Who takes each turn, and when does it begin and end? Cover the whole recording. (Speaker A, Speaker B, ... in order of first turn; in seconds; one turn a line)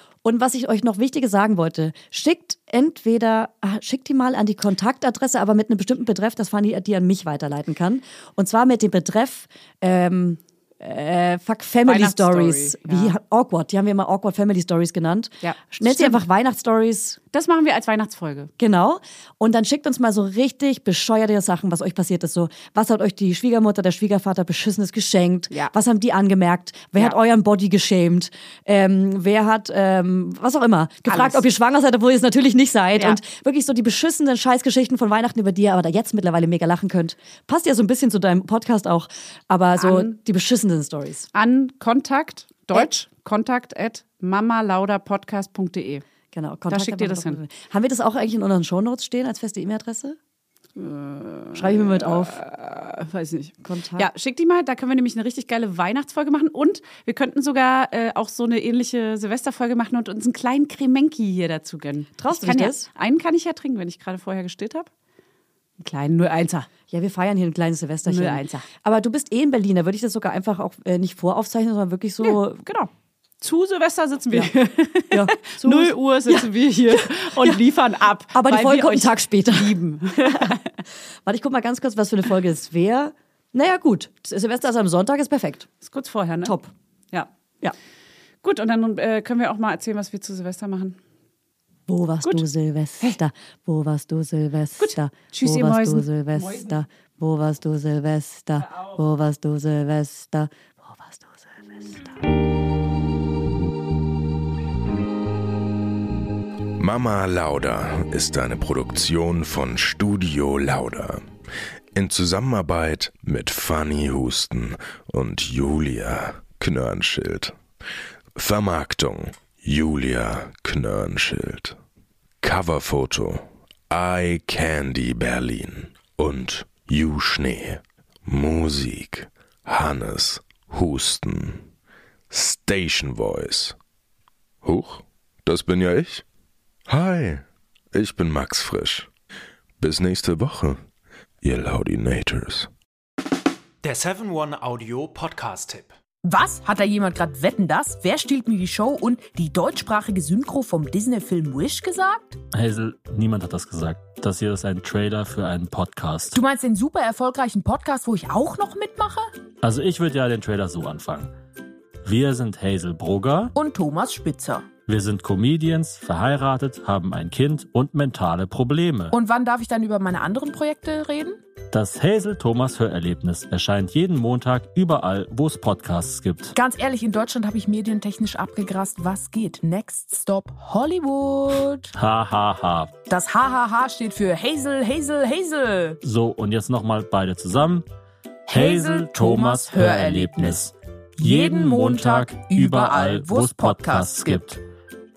Speaker A: 0.2-17.2
Speaker B: 11.8-13.2
Speaker B: 15.4-16.2
Speaker B: 17.3-18.5
Speaker A: 18.6-41.3
Speaker B: 31.1-31.4
Speaker B: 39.8-40.1
Speaker B: 41.3-46.0
Speaker A: 46.3-50.2
Speaker B: 46.7-47.4
Speaker B: 50.8-64.9
Speaker A: 51.5-52.4
Speaker A: 53.6-54.1
Speaker A: 62.2-62.9
Speaker B: 65.8-66.7
Speaker A: 66.9-72.6
Speaker B: 68.0-68.7
Speaker B: 72.2-80.7
Speaker A: 75.1-77.5
Speaker A: 78.3-80.6
Speaker A: 81.2-85.7
Speaker B: 85.8-86.5
Speaker A: 86.4-86.7
Speaker B: 88.4-91.0
Speaker A: 91.9-102.0
Speaker B: 94.8-96.8
Speaker B: 98.6-99.0
Speaker C: 106.8-111.2
Speaker C: 111.9-117.5
Speaker C: 118.3-121.8
Speaker C: 122.4-131.6
Speaker C: 132.3-133.7
Speaker C: 134.6-136.2
Speaker C: 136.9-139.1
Speaker C: 139.8-140.8
Speaker C: 141.4-142.7
Speaker D: 143.8-145.9
Speaker E: 146.2-152.4
Speaker F: 152.5-156.4
Speaker E: 156.3-159.3
Speaker F: 159.6-161.3
Speaker F: 162.0-163.5
Speaker E: 163.5-164.7
Speaker F: 164.9-169.1
Speaker E: 169.1-171.3
Speaker F: 171.7-176.6
Speaker E: 176.6-181.9
Speaker F: 181.9-182.9
Speaker E: 183.1-186.0
Speaker F: 186.0-187.8
Speaker E: 188.5-190.7
Speaker F: 188.5-194.6
Speaker E: 191.2-194.5